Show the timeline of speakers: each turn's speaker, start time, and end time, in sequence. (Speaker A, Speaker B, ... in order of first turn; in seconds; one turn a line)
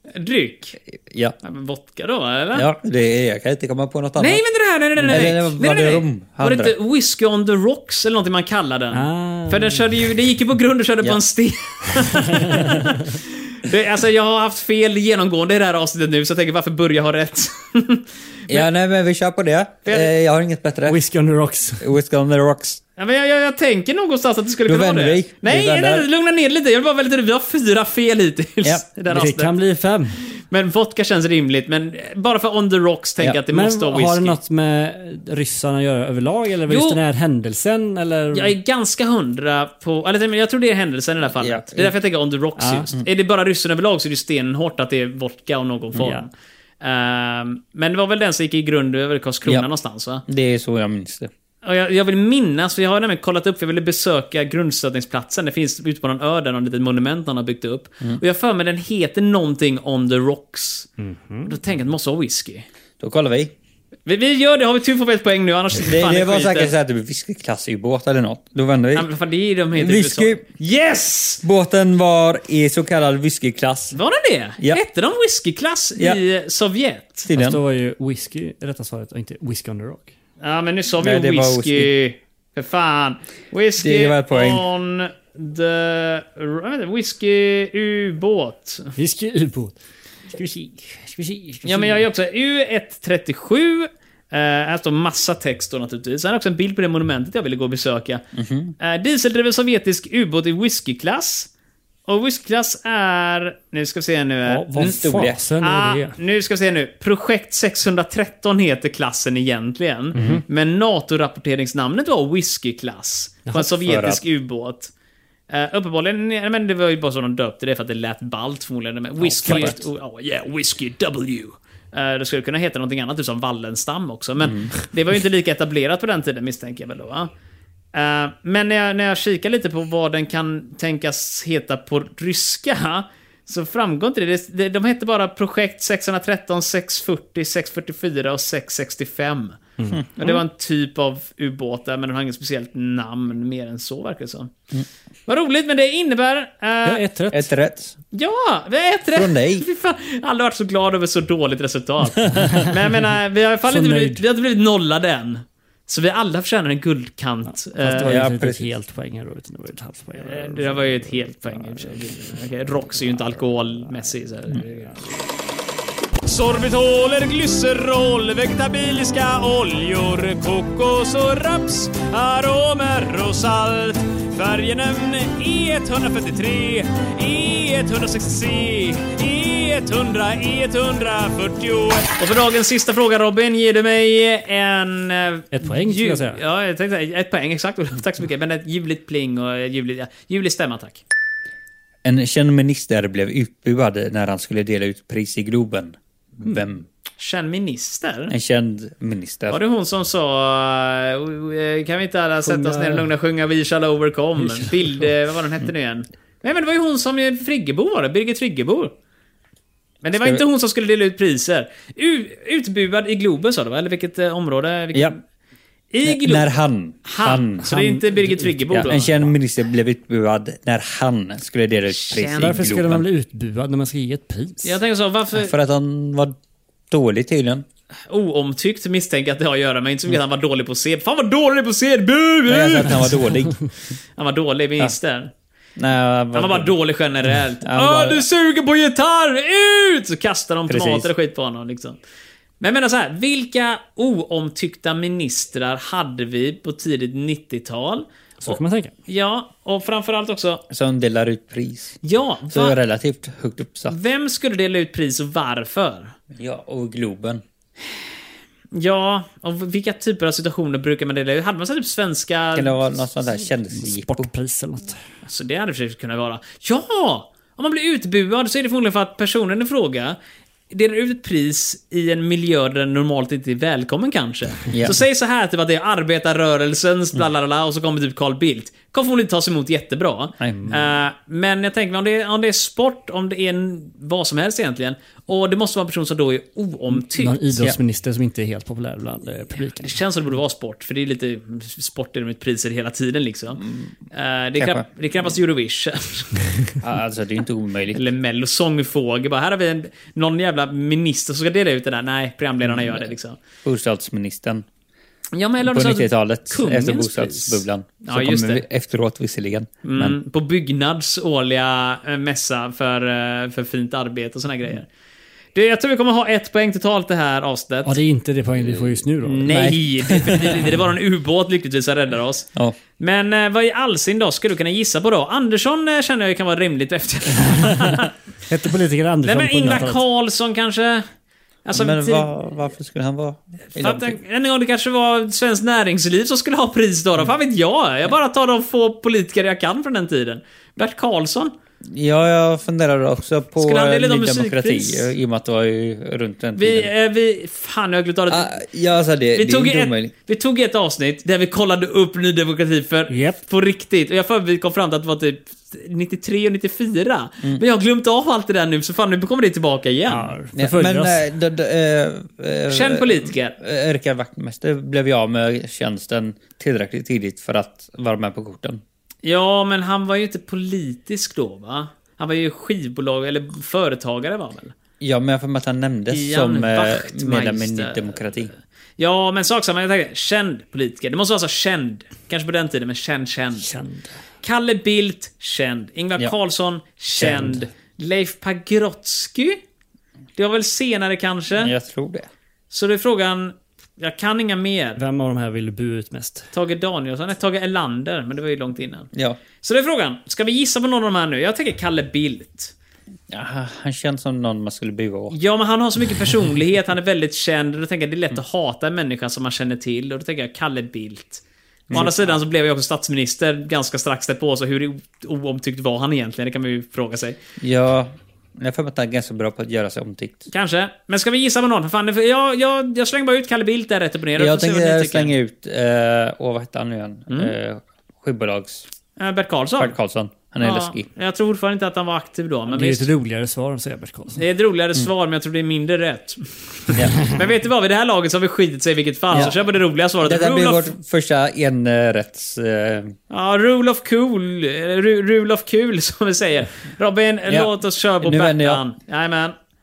Speaker A: 0.1-0.8
Speaker B: 1.1-1.3
Speaker A: 1.4-2.6
Speaker B: 2.5-4.4
Speaker A: 4.2-18.6
Speaker B: 5.0-6.7
Speaker C: 8.9-9.8
Speaker C: 12.4-12.7
Speaker B: 18.5-21.0
Speaker A: 19.8-20.1
Speaker C: 20.9-21.8
Speaker B: 21.8-22.8
Speaker A: 23.0-29.5
Speaker B: 24.6-26.1
Speaker C: 29.1-30.2
Speaker A: 30.3-34.4
Speaker C: 33.5-38.5
Speaker A: 36.7-37.0
Speaker A: 38.3-46.3
Speaker B: 41.4-41.9
Speaker C: 42.6-42.9
Speaker C: 45.9-46.2
Speaker A: 46.8-50.2
Speaker B: 50.2-51.3
Speaker A: 51.6-60.9
Speaker C: 61.0-61.5
Speaker A: 61.5-62.6
Speaker B: 63.0-63.5
Speaker A: 64.0-66.7
Speaker B: 65.8-69.1
Speaker A: 68.9-71.4
Speaker B: 69.7-70.4
Speaker B: 71.4-74.0
Speaker A: 73.9-77.3
Speaker B: 77.3-77.6
Speaker C: 77.3-80.1
Speaker A: 80.4-88.9
Speaker B: 81.0-81.9
Speaker B: 83.8-84.7
Speaker C: 89.0-92.0
Speaker A: 91.6-98.2
Speaker B: 98.3-98.7
Speaker A: 98.8-101.5
Speaker A: 102.1-104.9
Speaker C: 104.5-106.2
Speaker B: 104.7-105.4
Speaker A: 105.6-114.9
Speaker C: 110.1-110.4
Speaker B: 113.6-114.2
Speaker A: 115.5-127.3
Speaker B: 119.2-119.8
Speaker C: 119.4-119.7
Speaker B: 124.4-124.7
Speaker A: 127.9-139.6
Speaker A: 140.2-144.5
Speaker A: 145.3-147.0
Speaker C: 146.8-147.5
Speaker B: 147.3-147.9
Speaker A: 148.1-158.2
Speaker B: 149.1-149.7
Speaker C: 153.7-154.2
Speaker C: 157.7-161.0
Speaker B: 158.0-158.7
Speaker A: 160.2-164.9
Speaker C: 161.6-161.9
Speaker A: 166.2-191.0
Speaker C: 185.5-186.4
Speaker B: 192.0-196.8
Speaker A: 197.2-198.3
Speaker B: 198.3-199.6
Speaker A: 199.5-208.9
Speaker C: 202.4-203.1
Speaker C: 204.4-205.1
Speaker A: 210.0-215.2
Speaker B: 210.1-210.4
Speaker A: 215.9-216.5
Speaker B: 216.0-217.8
Speaker A: 217.0-219.3
Speaker C: 217.7-219.0
Speaker B: 218.7-223.0
Speaker A: 221.9-222.6
Speaker C: 222.2-224.8
Speaker A: 224.6-225.5
Speaker B: 225.3-226.4
Speaker B: 226.9-227.6
Speaker A: 228.1-233.2
Speaker B: 232.5-233.5
Speaker A: 234.2-235.3
Speaker B: 235.8-236.7
Speaker A: 236.3-242.0
Speaker B: 237.6-238.2
Speaker B: 240.7-241.1
Speaker A: 242.6-250.6
Speaker C: 248.4-248.9
Speaker B: 250.7-254.0
Speaker A: 252.0-252.8
Speaker A: 253.9-256.1
Speaker B: 256.3-257.4
Speaker A: 258.7-262.8
Speaker B: 262.5-264.3
Speaker C: 263.7-265.0
Speaker A: 265.2-270.2
Speaker A: 270.7-287.4
Speaker B: 274.7-275.0
Speaker B: 280.4-280.8
Speaker C: 287.1-289.9
Speaker A: 289.8-296.5
Speaker B: 294.6-294.9
Speaker B: 296.8-298.0
Speaker A: 297.9-303.4
Speaker B: 302.6-303.1
Speaker B: 303.6-304.6
Speaker A: 305.3-308.6
Speaker B: 305.6-310.1
Speaker A: 309.8-314.9
Speaker A: 315.5-318.0
Speaker C: 317.8-319.5
Speaker A: 319.2-328.1
Speaker B: 319.4-320.3
Speaker C: 328.5-330.0
Speaker A: 329.2-331.0
Speaker A: 331.6-332.3
Speaker B: 331.7-334.2
Speaker A: 333.8-341.5
Speaker B: 341.9-346.9
Speaker A: 343.6-345.1
Speaker A: 346.6-348.5
Speaker B: 348.3-350.1
Speaker A: 349.3-360.3
Speaker C: 353.1-353.4
Speaker C: 360.1-361.2
Speaker B: 360.5-368.8
Speaker A: 362.7-363.6
Speaker A: 369.2-374.7
Speaker B: 375.0-378.5
Speaker A: 376.1-378.3
Speaker A: 379.0-383.7
Speaker C: 383.6-384.1
Speaker A: 384.4-389.6
Speaker B: 387.2-387.6
Speaker A: 390.4-391.7
Speaker B: 391.6-392.3
Speaker A: 392.7-395.0
Speaker C: 395.0-396.5
Speaker A: 396.5-399.1
Speaker A: 399.6-402.7
Speaker B: 403.3-405.4
Speaker A: 405.3-417.4
Speaker B: 411.9-412.4
Speaker B: 417.6-420.5
Speaker A: 420.5-425.3
Speaker B: 424.4-428.8
Speaker A: 429.2-429.9
Speaker B: 429.8-431.1
Speaker A: 430.6-433.1
Speaker C: 432.7-434.4
Speaker A: 434.4-440.9
Speaker B: 440.2-443.1
Speaker A: 443.3-449.5
Speaker B: 447.5-448.8